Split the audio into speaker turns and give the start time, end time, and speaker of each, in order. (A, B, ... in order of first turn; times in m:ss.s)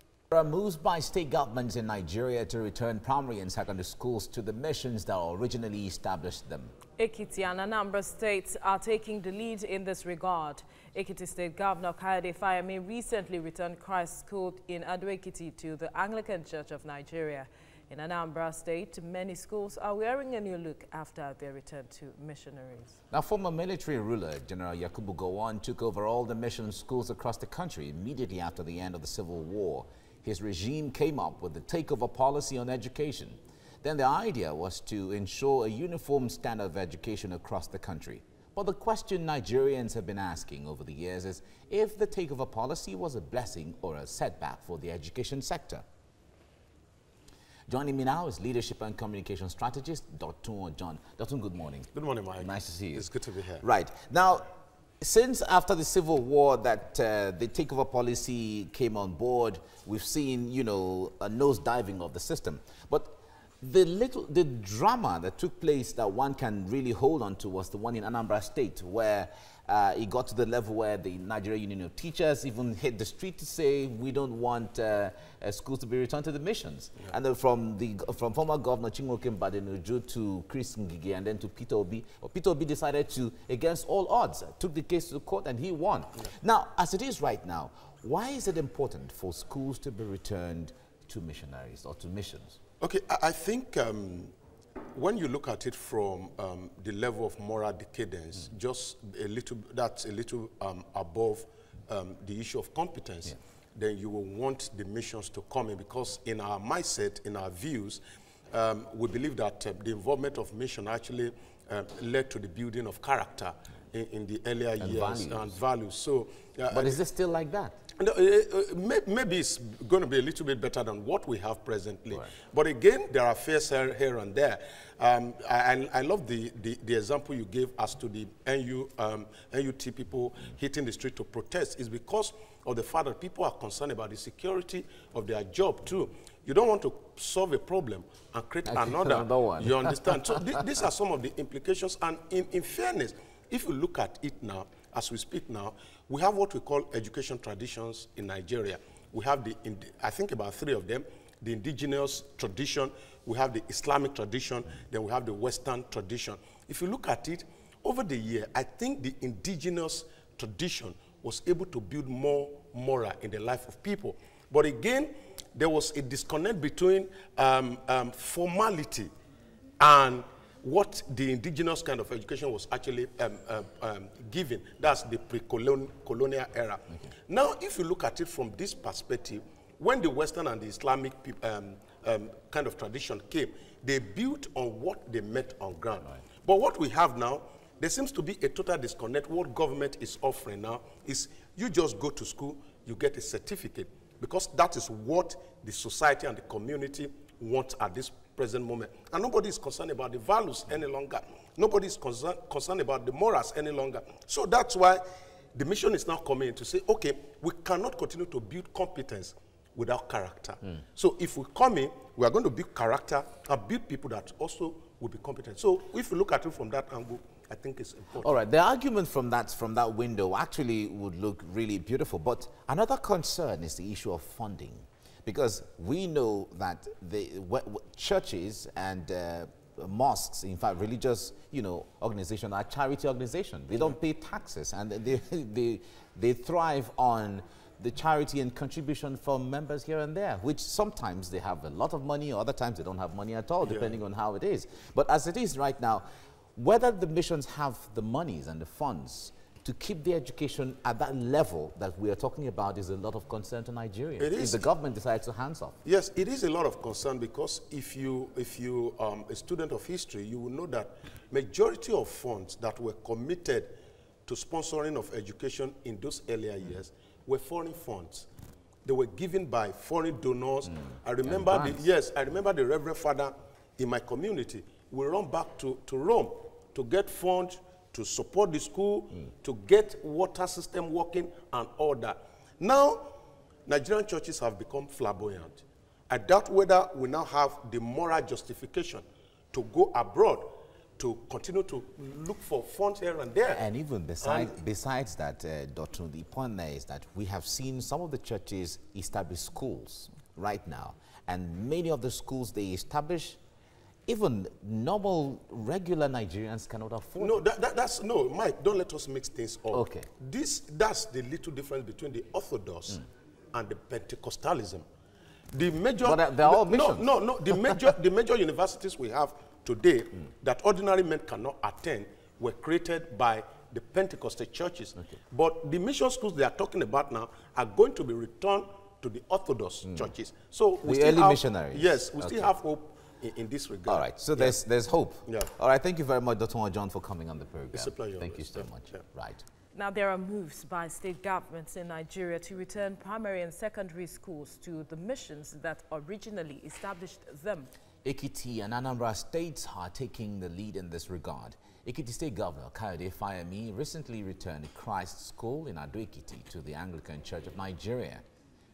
0:00.3-0:06.7 A
0:07.0-0:23.0 B
0:23.1-0:45.8 A
0:47.7-0:53.1 A
0:51.9-0:53.6 C
0:53.6-0:54.5 A
0:55.0-1:32.6 A
1:32.8-1:34.3 C
1:34.9-1:57.0 C
1:54.8-1:55.6 A
1:56.7-1:57.8 A
1:58.0-2:49.1 C
2:18.6-2:20.3 A
2:49.8-3:25.0 C
3:25.5-3:38.4 C
3:38.2-4:15.8 A
4:03.6-4:04.0 C
4:14.2-4:14.6 C
4:15.8-4:23.7 C
4:24.3-4:28.3 C
4:28.8-4:43.1 C
4:31.3-4:31.8 A
4:43.7-4:53.6 C
4:53.5-5:03.4 A
4:54.2-4:54.6 C
5:04.1-5:07.4 A
5:07.2-5:14.9 C
5:09.7-5:10.1 A
5:15.5-5:34.6 C
5:16.0-5:17.1 A
5:30.8-5:32.5 A
5:33.9-5:39.4 A
5:35.3-5:35.5 C
5:37.7-5:39.0 C
5:39.7-5:47.7 B
5:48.0-5:58.2 A